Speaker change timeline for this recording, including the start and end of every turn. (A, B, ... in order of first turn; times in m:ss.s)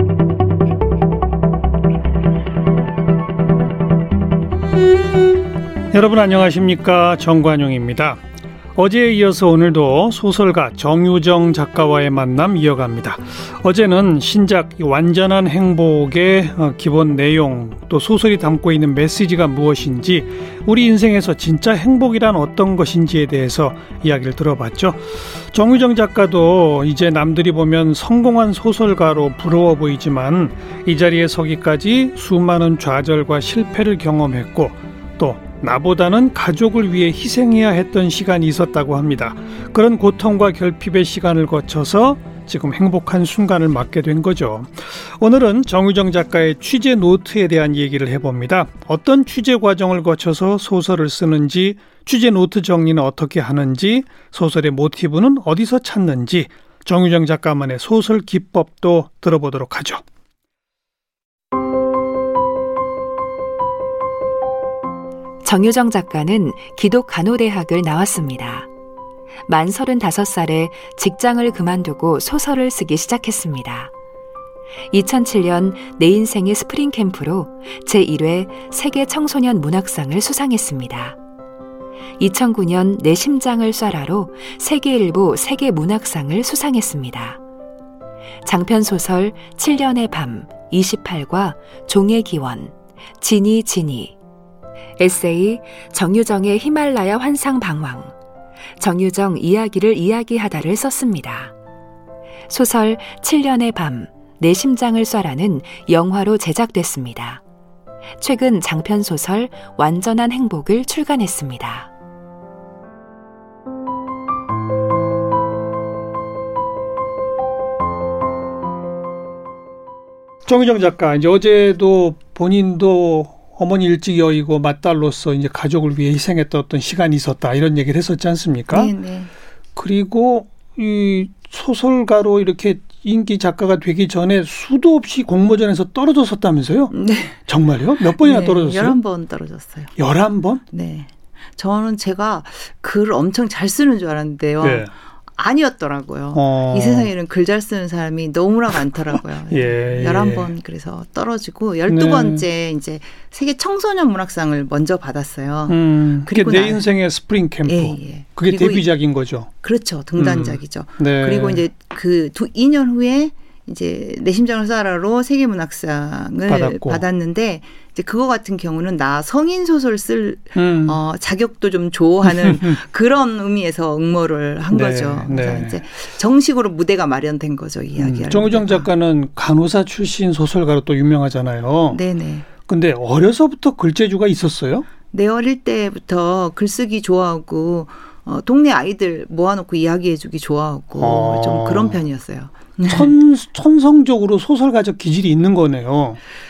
0:05.9-0:08.2 A
0:08.8-1:00.0 A
1:05.4-1:08.7 B
1:09.5-1:13.9 B
1:14.9-1:21.2 B
1:22.2-1:27.4 B
1:28.4-1:34.1 B
1:35.0-1:38.1 B
1:38.8-1:41.5 B
1:42.5-1:47.4 B
1:48.2-1:51.9 B
2:00.4-2:08.9 A
2:08.7-2:09.3 C
2:09.8-2:19.0 A
2:16.9-2:17.4 C
2:18.2-2:19.9 C
2:20.0-2:20.6 A
2:20.7-2:36.8 C
2:24.6-2:24.9 A
2:26.3-2:27.1 A
2:29.5-2:30.5 A
2:31.9-2:32.4 A
2:35.7-2:39.5 A
2:37.6-2:38.9 C
2:39.6-2:58.9 C
2:40.2-2:41.6 A
2:46.5-2:47.0 A
2:50.5-2:51.0 A
2:52.2-2:52.8 A
2:54.7-2:55.8 A
2:58.0-3:02.0 A
3:01.9-3:02.5 C
3:02.6-3:04.9 A
3:05.1-3:13.1 C
3:11.0-3:12.0 A
3:12.9-3:16.2 A